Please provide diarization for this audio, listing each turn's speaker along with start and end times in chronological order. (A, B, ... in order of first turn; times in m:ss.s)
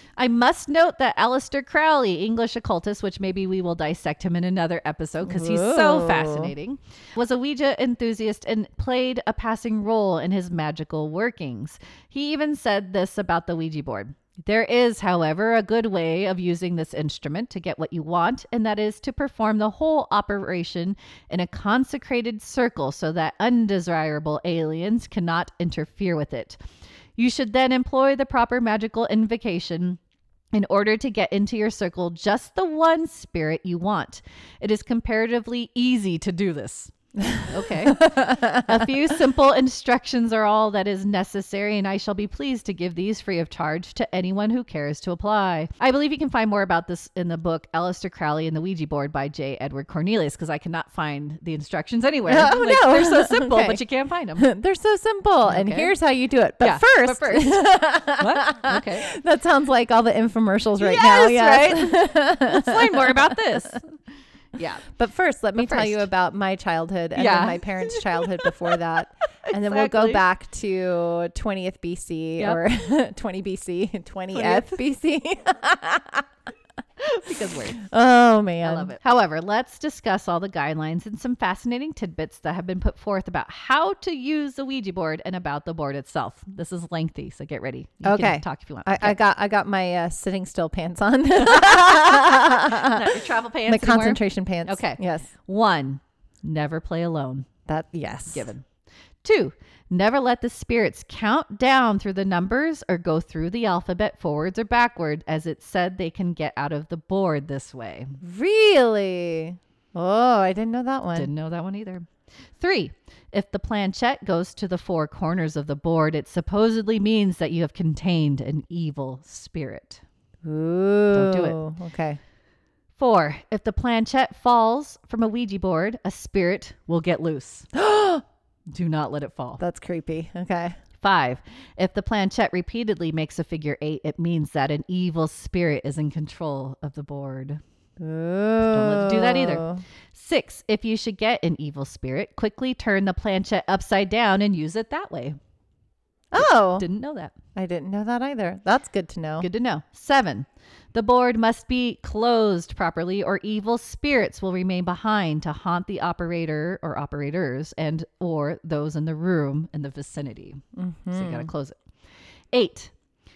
0:00.2-0:26.6 A
0:05.2-0:06.5 B
0:27.2-0:30.0 A
0:30.5-0:54.5 A
0:37.2-0:38.8 B
0:52.3-0:53.8 B
0:54.4-1:03.4 B
0:55.5-0:55.9 A
0:56.6-0:59.1 A
1:00.8-1:04.0 A
1:04.6-1:04.8 A
1:04.9-1:16.3 B
1:05.6-1:06.1 A
1:07.2-1:08.8 A
1:09.5-1:10.2 A
1:14.3-1:14.8 A
1:17.1-1:17.8 A
1:17.8-1:19.0 B
1:18.6-1:29.2 A
1:28.0-1:35.3 B
1:31.4-1:37.5 A
1:37.7-1:38.5 B
1:38.3-1:38.6 A
1:39.2-1:48.2 A
1:48.2-1:51.3 B
1:51.1-2:00.0 A
2:00.4-2:02.2 B
2:01.1-2:01.6 A
2:03.0-2:07.7 A
2:07.7-2:08.2 B
2:08.7-2:09.6 A
2:09.6-2:10.8 B
2:11.0-2:17.6 A
2:18.0-2:19.8 B
2:18.6-2:25.4 A
2:26.3-2:26.8 B
2:26.4-2:27.4 A
2:27.6-2:29.5 B
2:29.4-2:40.6 A
2:40.8-2:41.5 B
2:41.1-2:41.8 A
2:42.5-2:42.9 A